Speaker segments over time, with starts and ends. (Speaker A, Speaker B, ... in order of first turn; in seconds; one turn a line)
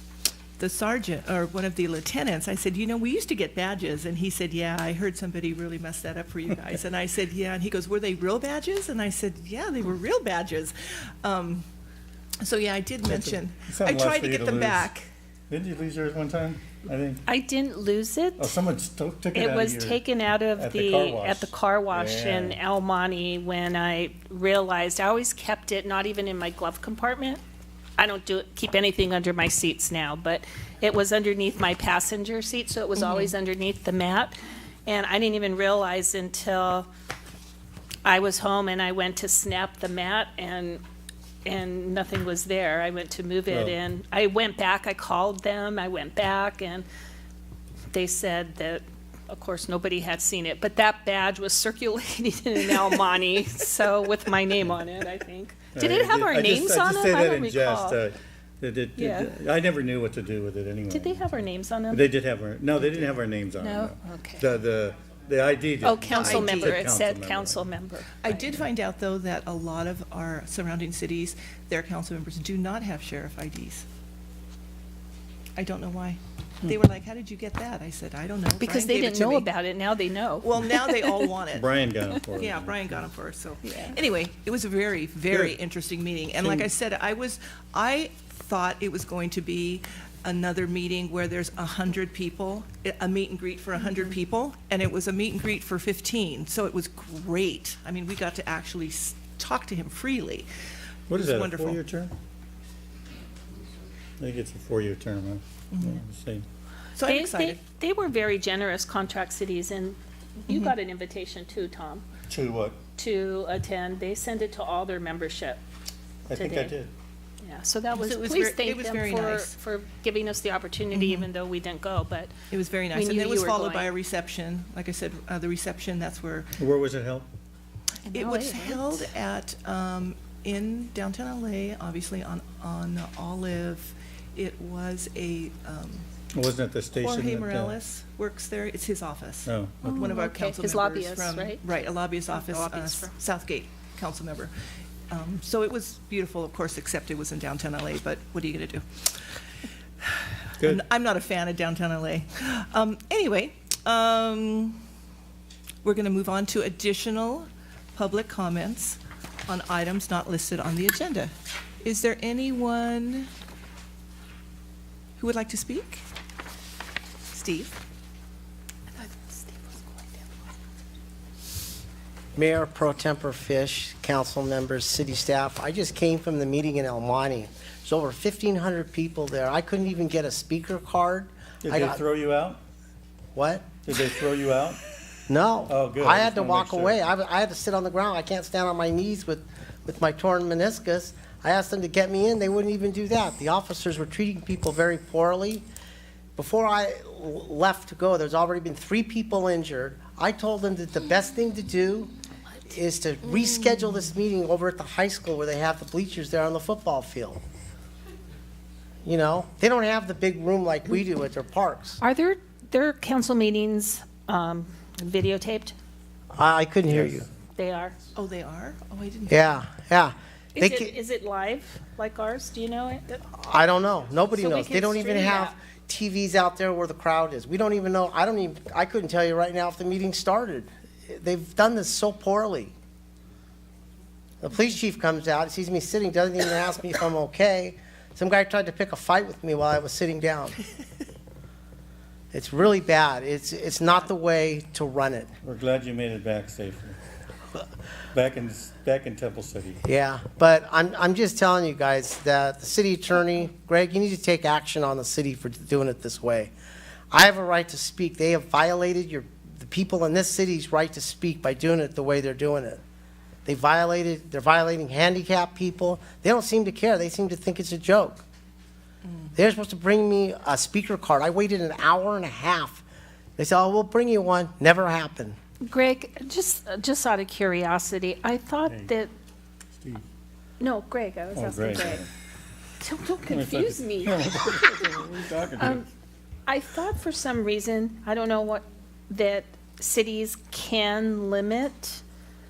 Speaker A: 0.6-11.7
Speaker A: 12.4-15.1
Speaker B: 13.1-14.9
Speaker B: 15.5-17.2
Speaker C: 17.3-18.5
Speaker B: 18.4-20.0
Speaker C: 19.3-27.4
Speaker B: 20.6-22.6
Speaker C: 28.0-34.4
Speaker A: 33.0-33.3
Speaker C: 34.9-36.9
Speaker C: 38.0-40.8
Speaker C: 41.5-46.9
Speaker B: 43.5-43.8
Speaker C: 47.9-58.0
Speaker B: 55.7-61.3
Speaker C: 59.0-59.3
Speaker C: 60.9-62.0
Speaker B: 61.9-67.7
Speaker C: 63.6-64.4
Speaker C: 65.8-68.5
Speaker A: 66.1-66.8
Speaker A: 68.2-73.9
Speaker A: 75.6-79.5
Speaker C: 78.6-81.3
Speaker A: 80.4-81.7
Speaker B: 81.5-82.8
Speaker A: 82.3-100.5
Speaker C: 83.7-84.0
Speaker B: 86.4-86.7
Speaker B: 101.1-102.1
Speaker A: 101.1-101.8
Speaker B: 104.2-106.5
Speaker A: 105.7-106.0
Speaker A: 107.0-107.6
Speaker C: 107.0-112.0
Speaker B: 112.3-112.8
Speaker C: 113.0-115.6
Speaker B: 116.3-116.9
Speaker C: 116.3-116.8
Speaker C: 117.4-122.3
Speaker A: 118.0-119.5
Speaker A: 120.9-121.3
Speaker A: 122.5-126.5
Speaker C: 122.9-123.9
Speaker B: 126.6-127.3
Speaker C: 128.1-129.0
Speaker A: 128.1-136.1
Speaker B: 136.3-137.8
Speaker A: 136.9-144.5
Speaker B: 139.5-140.1
Speaker C: 139.8-141.6
Speaker C: 142.3-143.1
Speaker A: 145.1-149.4
Speaker A: 150.0-154.8
Speaker A: 155.8-163.3
Speaker A: 165.2-166.1
Speaker A: 167.3-167.8
Speaker C: 168.9-170.1
Speaker D: 172.4-182.0
Speaker B: 181.6-182.6
Speaker D: 183.3-183.7
Speaker B: 183.8-184.8
Speaker D: 185.3-195.7
Speaker B: 185.7-187.0
Speaker D: 196.4-202.1
Speaker D: 202.7-207.4
Speaker D: 209.0-212.0
Speaker C: 212.0-215.8
Speaker D: 216.3-217.3
Speaker B: 216.9-217.2
Speaker C: 217.6-218.0
Speaker A: 218.2-219.6
Speaker D: 219.3-220.9
Speaker C: 220.6-223.2
Speaker D: 223.3-232.7
Speaker C: 224.4-225.6
Speaker D: 234.4-240.6
Speaker D: 242.3-245.3
Speaker B: 245.4-247.0
Speaker B: 248.1-249.8
Speaker D: 249.8-256.5
Speaker D: 257.1-262.8
Speaker D: 263.5-268.2
Speaker D: 269.4-272.8
Speaker D: 273.4-275.4
Speaker C: 275.6-279.1
Speaker B: 278.7-278.9
Speaker B: 279.8-280.1
Speaker C: 280.6-282.1
Speaker B: 281.4-282.1
Speaker C: 282.8-284.9
Speaker B: 283.3-285.9
Speaker C: 285.6-285.9
Speaker C: 286.5-292.0